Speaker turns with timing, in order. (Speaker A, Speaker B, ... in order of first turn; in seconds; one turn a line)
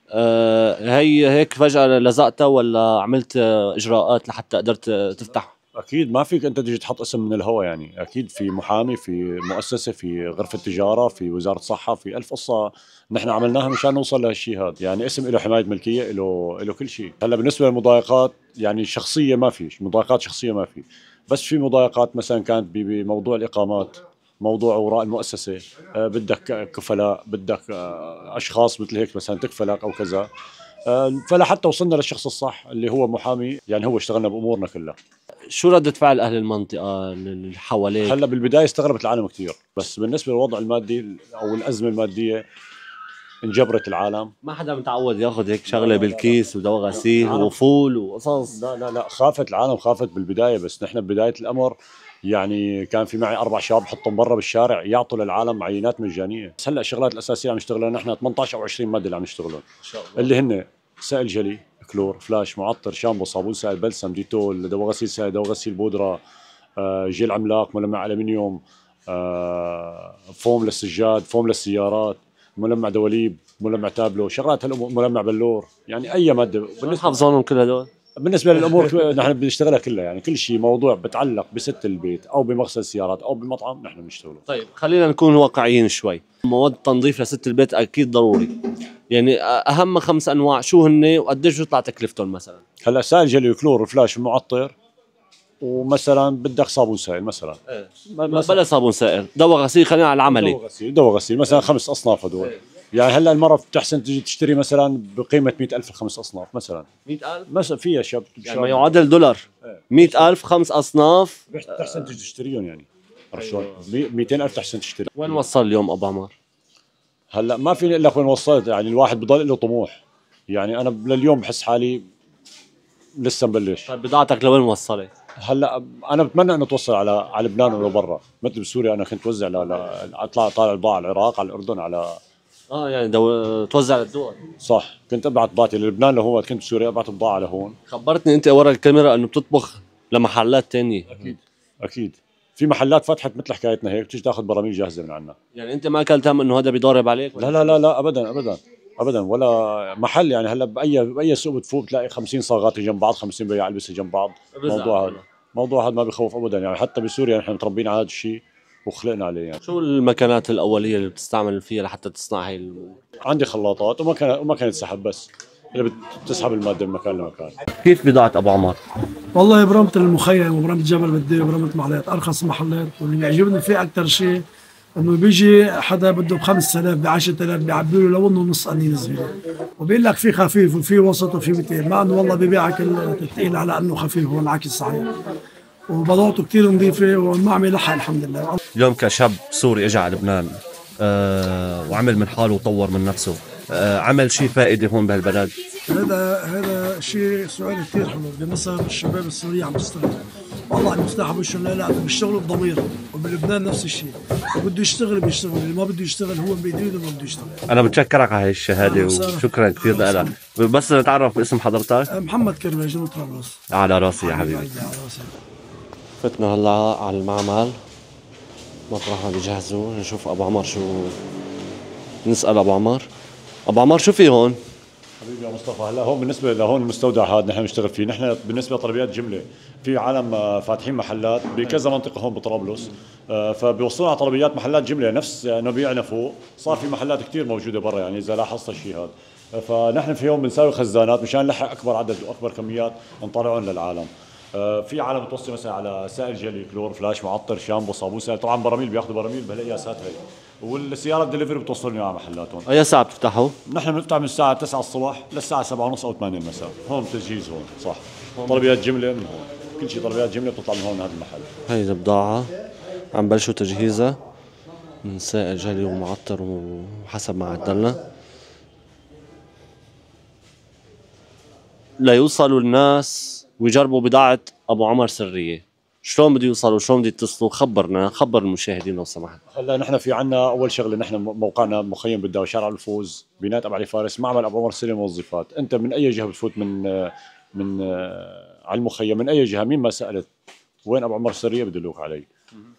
Speaker A: 0.1-5.5
Speaker B: 5.8-30.3
Speaker B: 30.9-35.0
Speaker A: 35.5-38.2
Speaker B: 38.0-42.4
Speaker B: 43.4-44.3
Speaker A: 44.4-48.6
Speaker B: 45.7-46.4
Speaker B: 46.9-47.5
Speaker B: 48.5-51.8
Speaker B: 52.3-59.7
Speaker A: 59.8-60.3
Speaker B: 60.2-66.2
Speaker B: 66.8-77.2
Speaker A: 76.8-77.9
Speaker B: 78.2-84.4
Speaker A: 84.5-88.5
Speaker A: 89.1-92.6
Speaker B: 92.8-94.7
Speaker B: 95.6-97.6
Speaker A: 97.7-100.6
Speaker B: 98.1-98.6
Speaker B: 100.3-106.9
Speaker A: 107.1-107.5
Speaker B: 107.5-108.9
Speaker A: 108.5-112.1
Speaker B: 109.7-110.3
Speaker B: 111.5-115.4
Speaker A: 115.2-116.3
Speaker B: 117.3-120.0
Speaker B: 120.5-122.0
Speaker B: 123.2-123.9
Speaker A: 123.9-125.1
Speaker B: 125.5-132.2
Speaker A: 132.7-134.5
Speaker B: 134.6-137.8
Speaker A: 137.9-141.4
Speaker B: 141.8-145.4
Speaker A: 145.5-147.8
Speaker B: 147.4-159.6
Speaker A: 154.6-155.2
Speaker A: 159.6-163.0
Speaker B: 163.3-167.6
Speaker A: 167.8-168.8
Speaker C: 169.3-174.4
Speaker C: 175.0-185.2
Speaker C: 185.9-188.6
Speaker A: 188.8-195.6
Speaker C: 195.9-207.6
Speaker A: 207.7-212.1
Speaker C: 208.8-210.3
Speaker C: 212.1-213.6
Speaker A: 213.7-214.7
Speaker C: 214.2-215.3
Speaker A: 216.2-217.7
Speaker A: 218.9-221.2
Speaker A: 222.2-223.1
Speaker A: 223.7-224.6
Speaker B: 225.2-252.7
Speaker A: 252.7-253.6
Speaker B: 253.7-261.5
Speaker A: 258.4-258.7
Speaker A: 261.7-262.5
Speaker A: 263.1-264.2
Speaker A: 265.0-268.0
Speaker A: 272.0-279.4
Speaker B: 279.5-290.3
Speaker B: 290.9-292.3